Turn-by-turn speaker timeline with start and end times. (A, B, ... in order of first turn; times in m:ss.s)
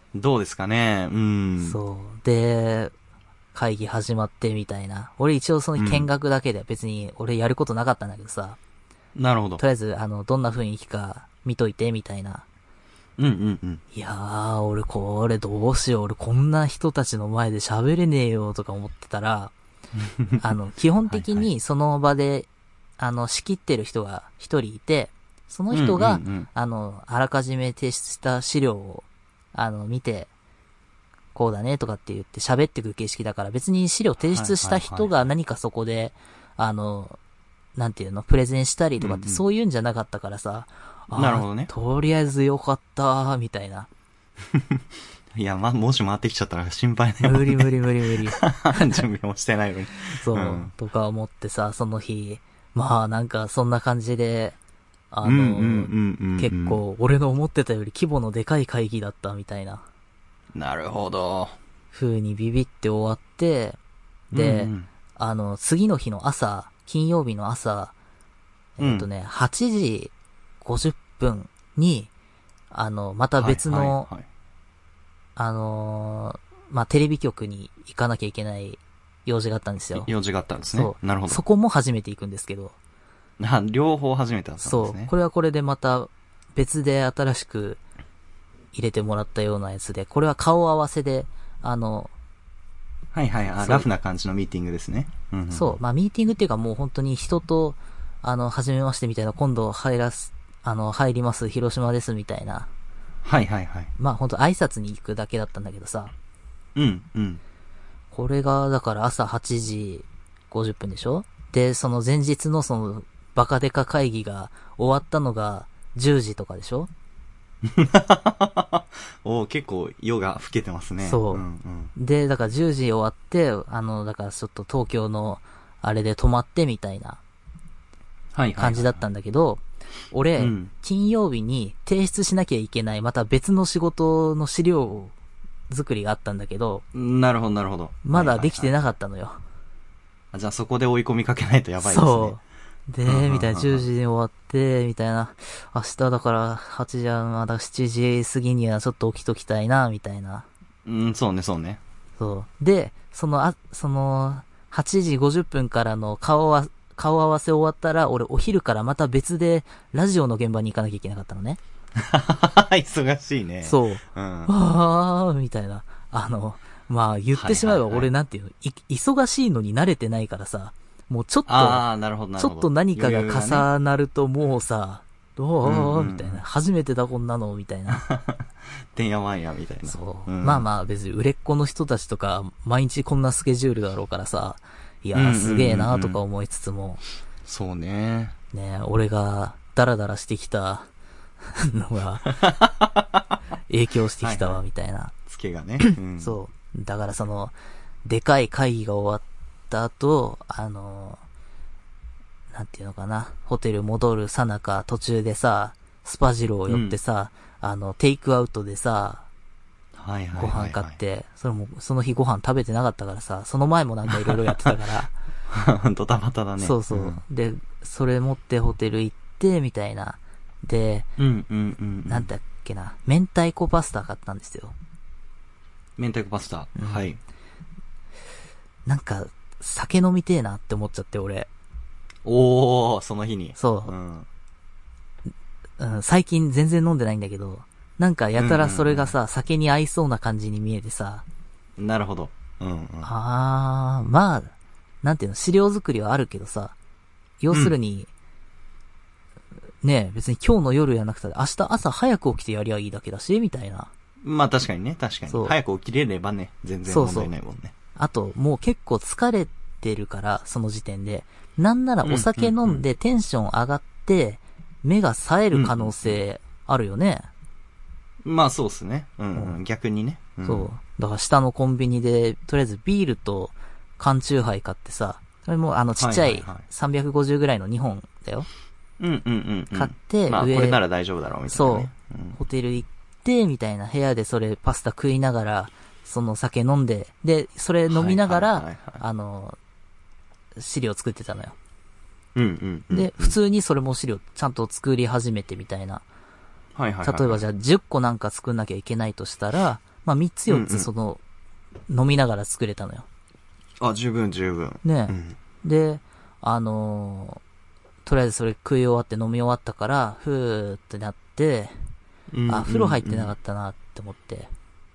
0:00.1-0:01.8 A
0:01.6-0:02.9 B
0:03.5-0:08.6 B
0:05.8-0:06.1 A
0:09.2-0:09.6 A
0:09.6-0:12.4 B
0:13.2-0:13.8 A
0:13.9-0:19.5 B
0:20.0-0:20.4 A
0:20.4-0:22.5 B
0:21.1-0:21.5 A
0:23.0-0:30.3 B
0:25.7-0:26.5 A
0:31.3-0:37.2 B
0:34.2-0:35.1 A
0:37.8-0:43.9 B
0:39.0-0:39.4 A
0:41.1-0:41.7 A
0:44.5-0:44.8 A
0:45.3-0:47.7 A
0:47.2-0:49.0 B
0:48.4-0:50.7 A
0:50.1-0:54.6 B
0:55.1-0:59.8 B
0:55.2-0:56.8 A
1:00.5-1:01.6 A
1:01.9-1:03.8 B
1:04.3-1:04.9 A
1:04.3-1:07.9 B
1:08.8-1:12.1 B
1:08.8-1:09.1 A
1:12.7-1:14.1 B
1:13.4-1:14.3 A
1:15.4-1:20.1 B
1:20.0-1:21.4 A
1:20.7-1:22.8 B
1:23.4-1:25.1 A
1:24.6-1:27.8 B
1:28.7-1:32.1 B
1:33.1-1:35.8 A
1:33.6-1:33.9 B
1:35.5-1:42.7 B
1:43.2-1:43.9 A
1:44.0-1:46.1 B
1:46.8-1:47.4 A
1:48.1-1:56.9 B
1:57.6-2:01.9 A
2:01.0-2:01.4 B
2:02.0-2:07.2 B
2:08.3-2:09.0 A
2:08.6-2:15.1 B
2:10.4-2:10.7 A
2:15.7-2:16.8 B
2:16.9-2:18.7 A
2:18.0-2:19.4 B
2:20.3-2:22.4 A
2:21.8-2:30.5 B
2:23.1-2:23.9 A
2:30.8-2:31.8 A
2:32.2-2:41.6 B
2:42.0-2:44.5 A
2:43.6-2:51.8 B
2:47.3-2:48.1 A
2:51.5-2:53.7 A
2:52.4-2:58.0 B
2:55.6-2:56.4 A
2:57.9-3:00.7 A
2:59.9-3:07.0 B
3:05.1-3:06.2 A
3:07.4-3:08.4 A
3:08.5-3:10.9 B
3:11.6-3:12.4 B
3:12.3-3:13.2 A
3:13.7-3:15.1 B
3:14.2-3:14.6 A
3:15.3-3:16.4 A
3:15.8-3:17.5 B
3:18.0-3:21.2 B
3:22.5-3:29.2 B
3:26.7-3:27.0 A
3:30.0-3:31.0 A
3:30.4-3:35.1 B
3:34.1-3:34.8 A
3:35.5-3:37.2 A
3:36.6-3:41.1 B
3:41.2-3:42.3 A
3:42.1-3:44.8 B
3:46.0-3:47.2 A
3:46.8-3:47.0 B
3:48.9-3:51.5 B
3:52.2-3:54.3 A
3:53.6-3:53.9 B
3:55.8-4:01.2 B
3:58.4-3:59.2 A
4:01.8-4:03.1 A
4:03.0-4:06.7 B
4:07.4-4:08.1 B
4:09.8-4:13.9 B
4:14.2-4:17.7 A
4:15.3-4:15.6 B
4:16.9-4:17.3 B
4:18.0-4:27.3 B
4:22.0-4:22.8 A
4:25.5-4:26.2 A
4:28.2-4:30.7 A
4:30.4-4:38.5 B
4:36.0-4:36.6 A
4:39.0-4:42.4 A
4:39.7-4:40.8 B
4:41.5-4:49.6 B
4:47.9-4:49.0 A
4:50.6-4:51.6 B
4:52.4-4:53.4 A
4:52.9-4:56.0 B
4:56.8-4:57.4 A
4:57.0-5:01.2 B
5:00.5-5:00.9 A
5:01.9-5:03.1 B
5:03.8-5:05.4 A
5:04.8-5:07.4 B
5:08.0-5:11.8 B
5:12.3-5:13.4 A
5:12.5-5:14.5 B